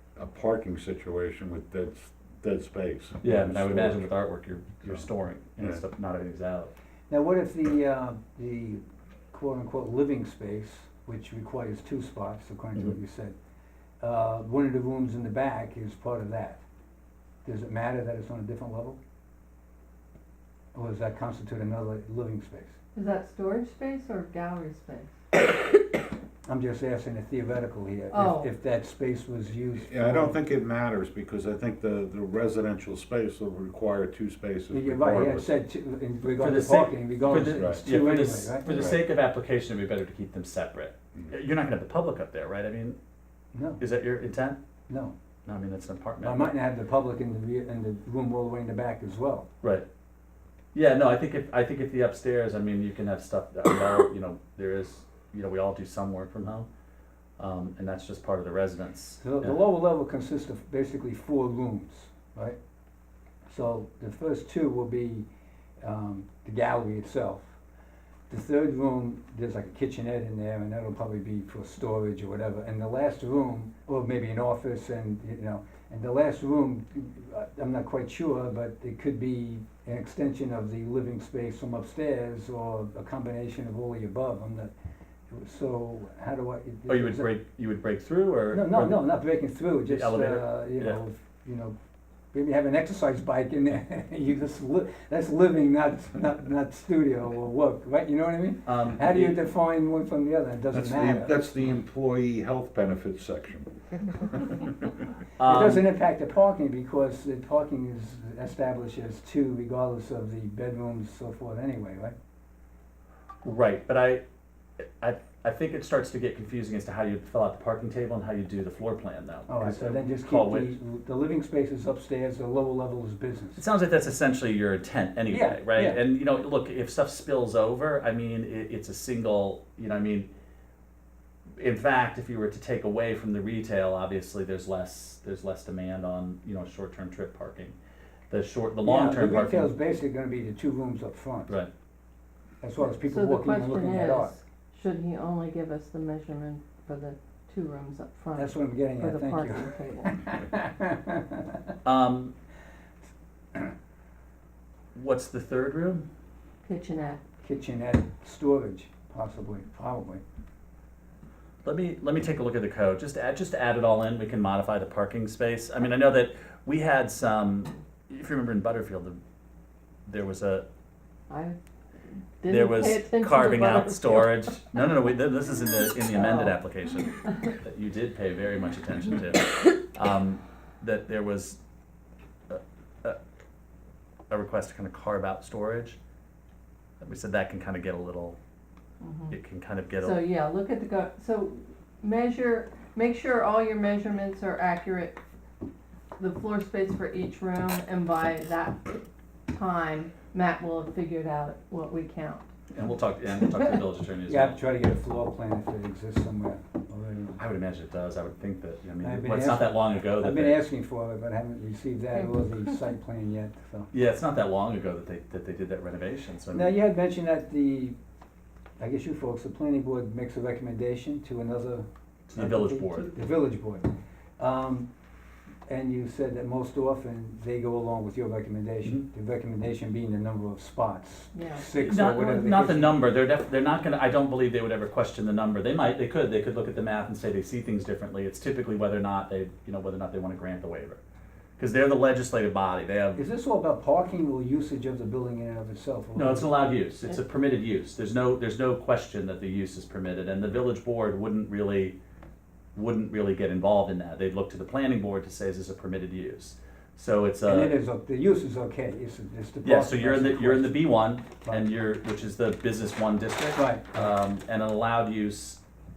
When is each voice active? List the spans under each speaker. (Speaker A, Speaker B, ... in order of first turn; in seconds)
Speaker A: 0.2-4.1, 29.8-35.6, 37.4-37.8, 38.7-39.0, 100.7-104.8
Speaker B: 3.2-6.7, 36.4-43.0, 43.8-44.6, 45.5-46.5, 49.6-49.9, 50.7-56.7, 57.4-59.6, 86.9-89.0, 89.9-91.0, 98.7-99.4, 105.4-105.8, 113.4-114.2, 114.8-120.8, 123.6-130.3, 131.6-137.8, 138.3-139.7, 151.8-152.3, 154.9-156.1, 161.7-169.2, 170.1-170.7, 172.5-181.6, 182.5-183.2, 184.3-186.0, 187.0-188.4, 189.3-190.2, 202.7-204.6, 207.4-210.6, 213.9-216.8, 222.3-223.1, 231.8-241.0, 241.6-243.2, 246.2-252.0, 252.8-257.8, 259.6-265.6
Speaker C: 7.1-13.3, 14.0-16.6, 17.4-19.0, 20.7-22.8, 26.5-30.4, 34.7-38.9, 43.5-43.8, 44.9-45.1, 46.2-49.5, 59.2-62.6, 63.5-65.3, 65.8-67.5, 68.3-84.7, 85.3-87.3, 88.5-91.8, 92.3-101.4, 105.4-112.2, 119.5-123.6, 125.3-126.0, 138.8-141.5, 142.6-144.3, 148.3-151.6, 157.4-160.2, 204.3-207.4, 209.0-213.9, 216.5-218.0, 218.8-224.9, 225.7-233.0, 243.2-246.5, 257.4-260.9, 263.5-264.1
Speaker D: 22.9-25.1, 28.1-28.5, 143.1-150.1, 156.7-157.2, 171.3-171.6, 172.4-174.4, 176.1-176.5, 189.0-189.3, 190.0-195.2, 196.2-202.5, 231.3-231.7